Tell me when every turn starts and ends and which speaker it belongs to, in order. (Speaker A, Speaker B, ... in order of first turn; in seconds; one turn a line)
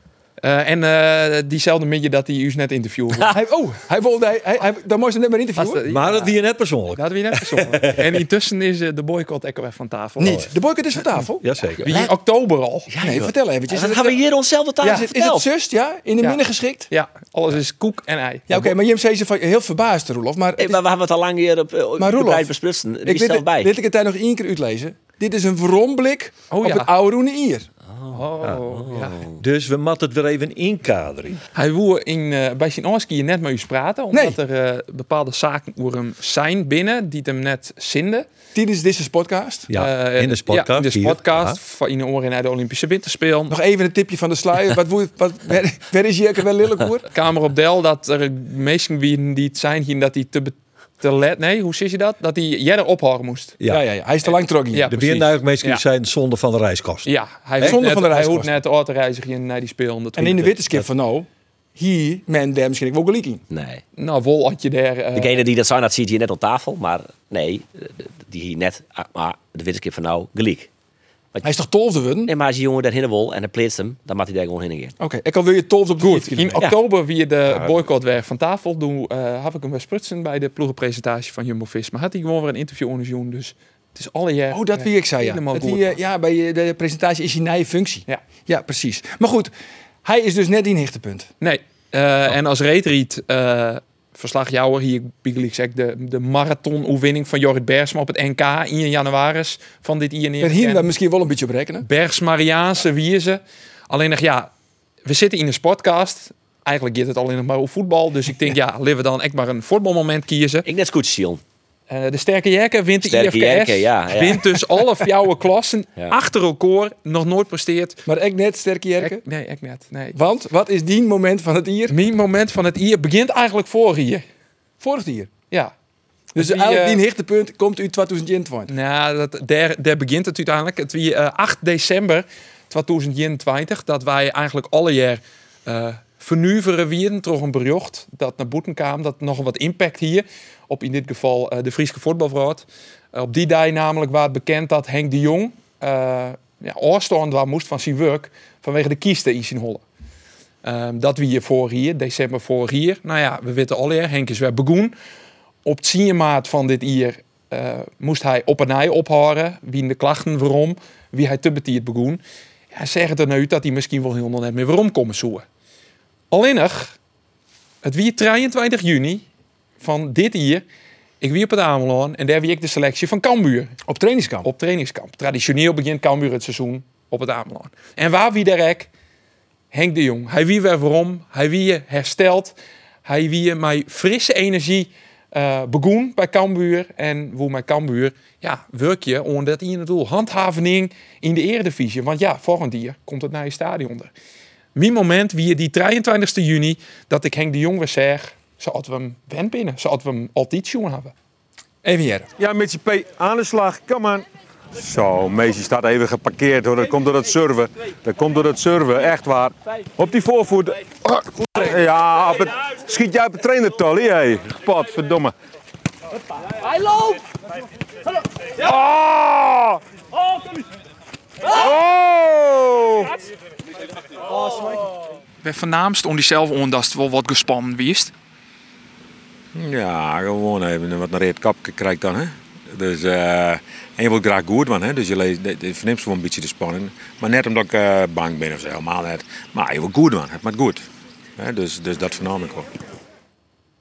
Speaker A: 0.4-3.3
Speaker B: 3.2-5.8
Speaker A: 5.6-6.3
Speaker C: 5.9-8.1
Speaker A: 7.0-10.4
Speaker B: 10.2-11.5
Speaker C: 10.2-10.5
Speaker C: 11.4-11.9
Speaker A: 11.8-12.9
Speaker D: 11.8-12.1
Speaker D: 12.9-15.5
Speaker B: 13.0-14.2
Speaker B: 14.8-16.9
Speaker A: 16.2-18.5
Speaker B: 18.5-20.8
Speaker D: 20.6-23.7
Speaker B: 22.0-22.5
Speaker B: 23.1-27.7
Speaker A: 26.5-26.9
Speaker D: 27.9-29.4
Speaker A: 28.1-29.2
Speaker C: 29.3-31.4
Speaker A: 31.5-38.3
Speaker B: 34.1-34.4
Speaker B: 38.5-39.7
Speaker C: 39.7-41.6
Speaker A: 39.7-43.6
Speaker B: 43.5-47.1
Speaker A: 47.1-53.6
Speaker B: 53.7-54.9
Speaker A: 54.7-55.8
Speaker C: 54.8-57.8
Speaker A: 57.0-60.5
Speaker B: 57.6-58.5
Speaker B: 60.2-63.4
Speaker D: 63.5-63.8
Speaker A: 64.0-65.4
Speaker D: 65.2-70.7
Speaker B: 71.4-72.3
Speaker D: 72.3-74.9
Speaker B: 75.0-76.7
Speaker A: 76.0-85.9
Speaker B: 84.5-89.5
Speaker B: 90.0-91.3
Speaker A: 91.4-100.9
Speaker B: 100.4-101.9
Speaker A: 101.8-104.5
Speaker A: 105.0-110.7
Speaker D: 110.7-111.4
Speaker A: 111.9-118.0
Speaker D: 113.0-114.6
Speaker B: 118.1-119.2
Speaker A: 119.0-120.2
Speaker B: 120.2-122.0
Speaker A: 121.9-124.2
Speaker B: 124.8-125.3
Speaker B: 126.3-128.7
Speaker A: 126.4-127.0
Speaker A: 128.7-149.8
Speaker A: 150.6-154.9
Speaker A: 155.7-165.4
Speaker A: 166.3-166.9
Speaker A: 167.8-169.2
Speaker A: 169.8-170.6
Speaker A: 171.2-173.7
Speaker B: 173.9-174.5
Speaker A: 174.4-178.9
Speaker A: 179.7-194.1
Speaker A: 194.8-201.1
Speaker B: 201.8-202.3
Speaker E: 202.4-215.3
Speaker E: 218.6-219.8
Speaker E: 221.5-223.1
Speaker A: 225.4-228.1
Speaker E: 229.5-240.8
Speaker E: 241.4-242.7